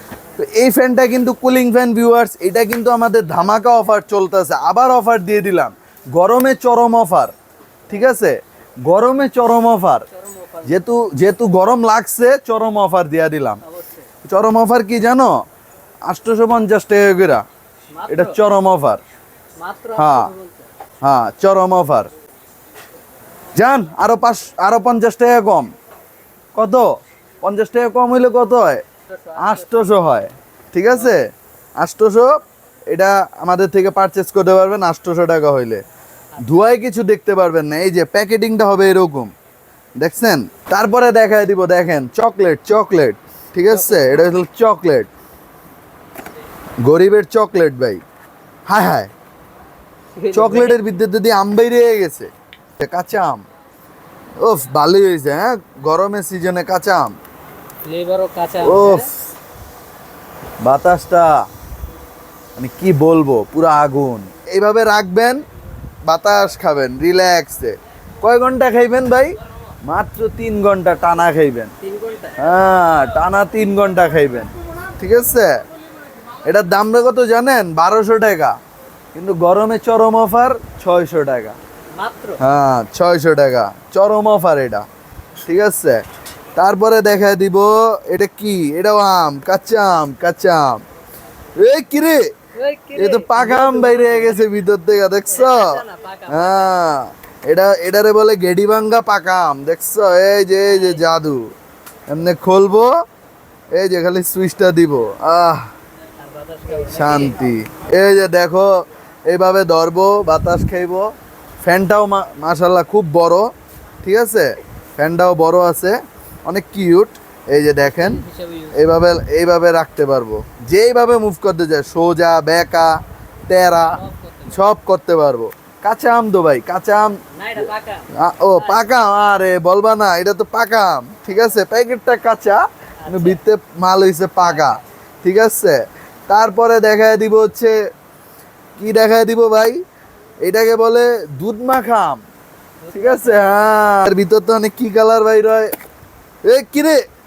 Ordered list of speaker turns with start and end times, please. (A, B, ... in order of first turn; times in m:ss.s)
0:00.4-0:07.3 A
0:07.9-0:10.1 A
0:10.1-0:10.8 B
0:10.7-0:13.6 A
0:13.6-0:14.1 B
0:14.2-0:15.3 A
0:16.1-0:17.4 A
0:17.9-0:18.4 B
0:18.1-0:19.0 A
0:19.6-0:20.7 B
0:20.0-0:20.3 A
0:21.0-0:22.1 A
0:23.6-0:25.7 A
0:26.6-0:28.8 A
0:29.1-0:29.7 B
0:29.4-0:32.4 A
0:32.9-0:35.8 A
0:36.4-0:39.3 A
0:40.0-0:45.1 A
0:43.7-0:44.2 B
0:46.8-0:48.0 A
0:48.7-0:49.1 A
0:50.2-0:50.8 B
0:50.3-0:53.4 A
0:54.4-0:57.1 A
0:57.8-0:59.1 B
0:58.6-0:59.2 A
1:00.6-1:01.4 A
1:02.6-1:05.4 A
1:06.1-1:09.4 A
1:09.9-1:11.7 A
1:11.8-1:12.4 B
1:12.4-1:15.6 A
1:16.4-1:18.6 A
1:19.2-1:21.6 A
1:22.0-1:22.4 B
1:22.4-1:24.9 A
1:25.5-1:26.0 A
1:26.6-1:30.8 A
1:31.6-1:32.3 A
1:32.6-1:34.5 B
1:33.0-1:41.5 A
1:35.3-1:36.7 B
1:40.6-1:41.1 B
1:42.1-1:42.9 A
1:43.7-1:45.7 A
1:46.2-1:47.6 B
1:46.9-1:51.1 A
1:51.6-1:53.5 A
1:54.0-2:17.8 A
1:57.8-1:58.9 B
2:03.9-2:04.6 B
2:07.3-2:08.9 B
2:13.0-2:13.4 B
2:14.4-2:14.8 B
2:18.8-2:19.8 A
2:20.4-2:22.2 A
2:22.8-2:23.6 B
2:22.9-2:25.7 A
2:26.4-2:27.0 A